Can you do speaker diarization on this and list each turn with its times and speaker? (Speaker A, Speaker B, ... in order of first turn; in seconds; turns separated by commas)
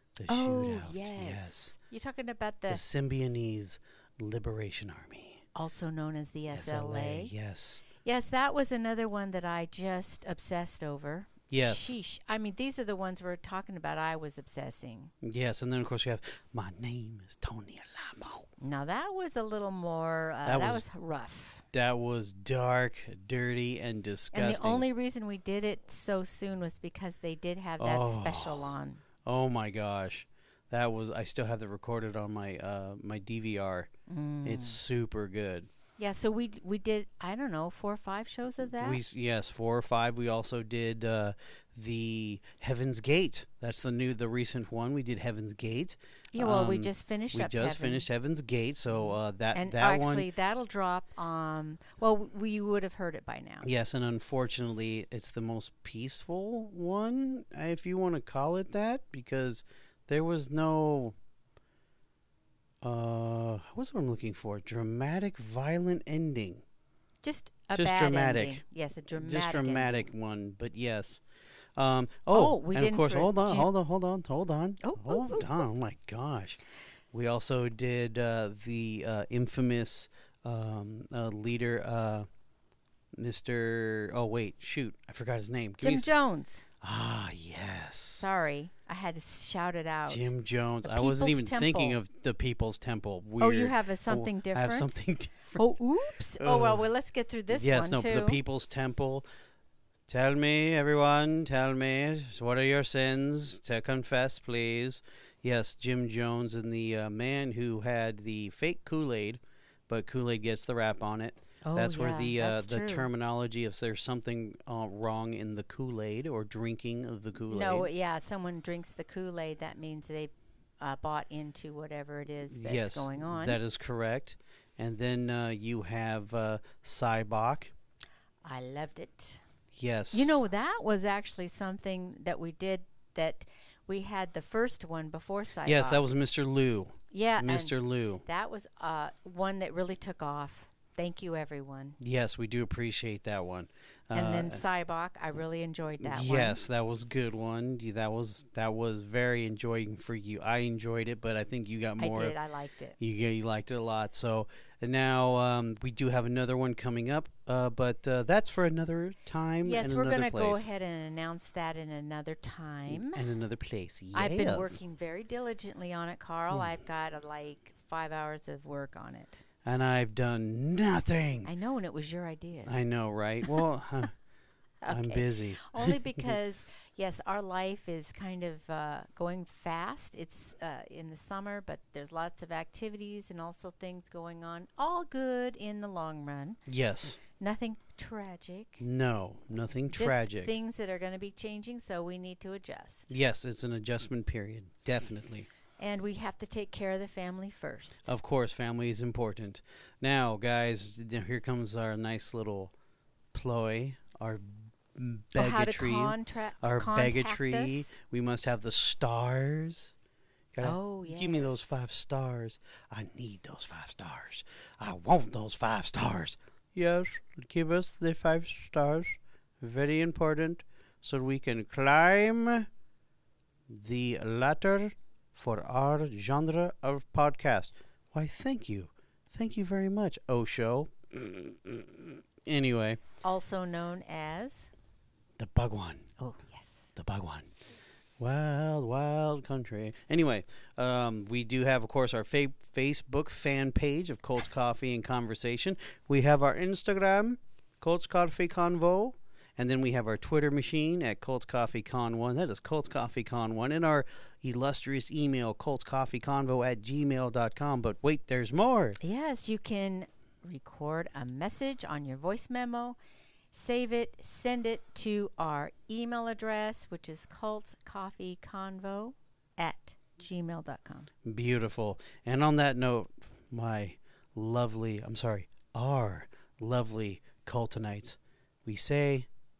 Speaker A: 0.2-1.7, Speaker B: 0.3-2.8, Speaker A: 2.7-5.4, Speaker B: 5.5-7.3, Speaker A: 6.5-7.8, Speaker B: 8.0-15.1, Speaker A: 11.5-11.9, Speaker A: 15.2-18.5, Speaker B: 18.6-21.6, Speaker A: 20.4-20.8, Speaker A: 21.7-24.8, Speaker B: 24.3-29.0, Speaker A: 27.8-28.7, Speaker A: 29.2-33.9, Speaker B: 34.1-34.8, Speaker A: 34.4-35.7, Speaker B: 36.0-39.0, Speaker A: 38.8-50.3, Speaker B: 46.3-48.0, Speaker B: 48.9-53.7, Speaker A: 53.6-61.1, Speaker A: 62.8-66.6, Speaker B: 67.2-70.1, Speaker A: 67.7-71.2, Speaker A: 71.8-76.6, Speaker B: 72.3-73.7, Speaker B: 74.8-75.7, Speaker A: 77.1-82.3, Speaker A: 83.1-86.1, Speaker B: 85.8-86.6, Speaker A: 86.8-88.3, Speaker B: 88.2-90.3, Speaker A: 90.1-95.6, Speaker B: 90.8-92.0, Speaker B: 93.4-94.9, Speaker B: 95.5-98.4, Speaker A: 96.4-96.8, Speaker A: 97.5-99.2, Speaker A: 100.1-117.9, Speaker B: 111.6-113.1, Speaker B: 117.5-123.6, Speaker A: 122.5-127.7, Speaker B: 128.4-129.4, Speaker A: 129.7-130.4, Speaker B: 130.1-136.0, Speaker A: 135.6-138.2, Speaker B: 137.1-142.0, Speaker A: 142.0-144.6, Speaker B: 144.1-146.6, Speaker A: 146.0-152.4, Speaker B: 152.0-153.0, Speaker A: 153.0-160.7, Speaker B: 159.6-163.2, Speaker A: 162.9-164.8, Speaker B: 164.1-169.4, Speaker A: 169.6-171.5, Speaker B: 171.4-172.7, Speaker A: 172.7-174.1, Speaker B: 174.8-186.6, Speaker A: 174.9-176.3, Speaker A: 186.7-187.2, Speaker B: 187.2-188.8, Speaker A: 188.8-190.5, Speaker B: 189.9-193.1, Speaker A: 193.1-195.5, Speaker B: 195.8-198.1, Speaker A: 198.1-202.7, Speaker A: 203.3-209.9, Speaker B: 205.3-207.9, Speaker A: 210.5-222.7, Speaker B: 210.6-211.7, Speaker A: 223.7-233.0, Speaker B: 233.2-234.7, Speaker A: 235.4-236.1, Speaker B: 236.2-236.9, Speaker A: 236.9-237.5, Speaker A: 238.2-259.0, Speaker B: 259.0-263.0, Speaker B: 263.5-271.1, Speaker A: 271.2-279.3